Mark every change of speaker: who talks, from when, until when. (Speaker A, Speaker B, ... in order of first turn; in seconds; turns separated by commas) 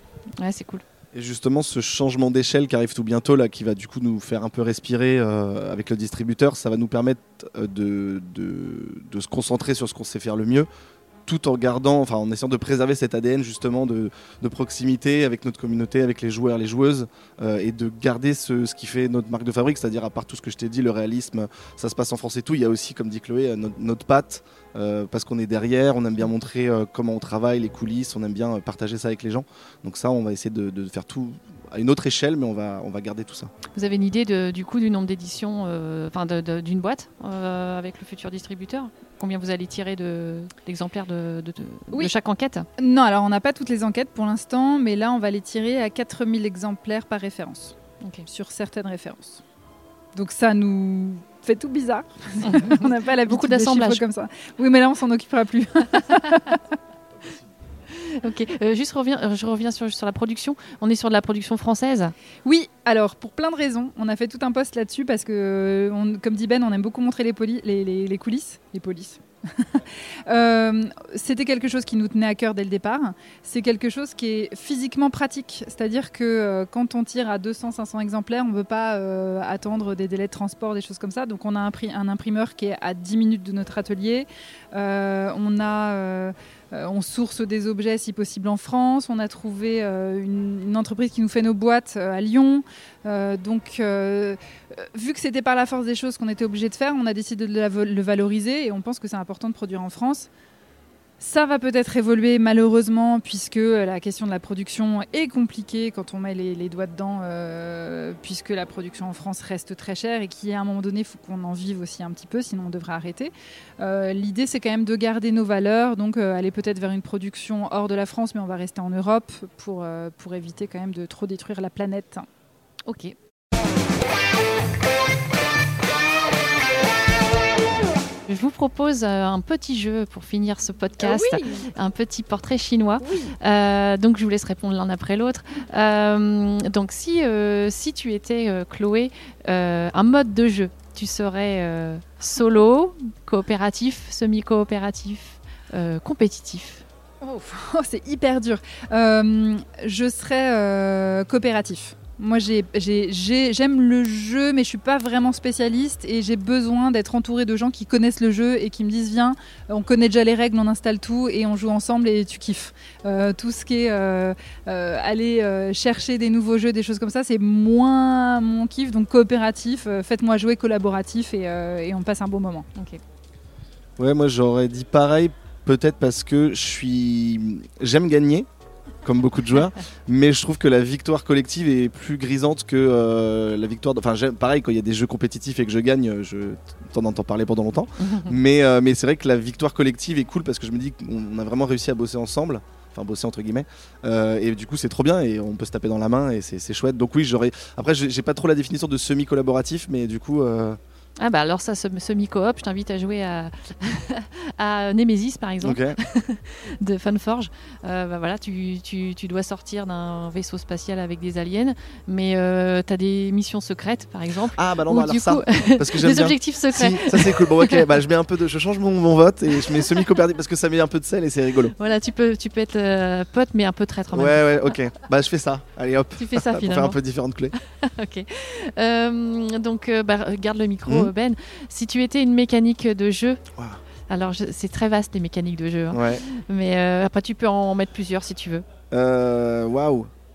Speaker A: 0.4-0.8, Speaker B: 1.1-10.7, Speaker B: 11.2-33.5, Speaker A: 33.7-42.7, Speaker C: 42.8-49.4, Speaker C: 50.1-56.8, Speaker A: 52.4-54.0, Speaker A: 57.9-62.1, Speaker C: 62.4-100.3, Speaker C: 101.2-122.2, Speaker A: 122.8-123.2, Speaker A: 128.3-146.8, Speaker C: 131.0-131.7, Speaker C: 133.0-133.3, Speaker C: 147.2-172.7, Speaker A: 172.8-173.0, Speaker B: 174.0-178.5, Speaker B: 179.0-200.8, Speaker A: 188.0-188.3, Speaker A: 201.2-217.9, Speaker B: 205.6-206.0, Speaker B: 214.6-221.7, Speaker A: 219.5-220.0, Speaker A: 221.8-224.7, Speaker B: 224.1-227.6, Speaker A: 226.2-227.0, Speaker A: 227.5-233.4, Speaker A: 234.1-238.6, Speaker B: 235.9-236.2, Speaker B: 238.9-240.1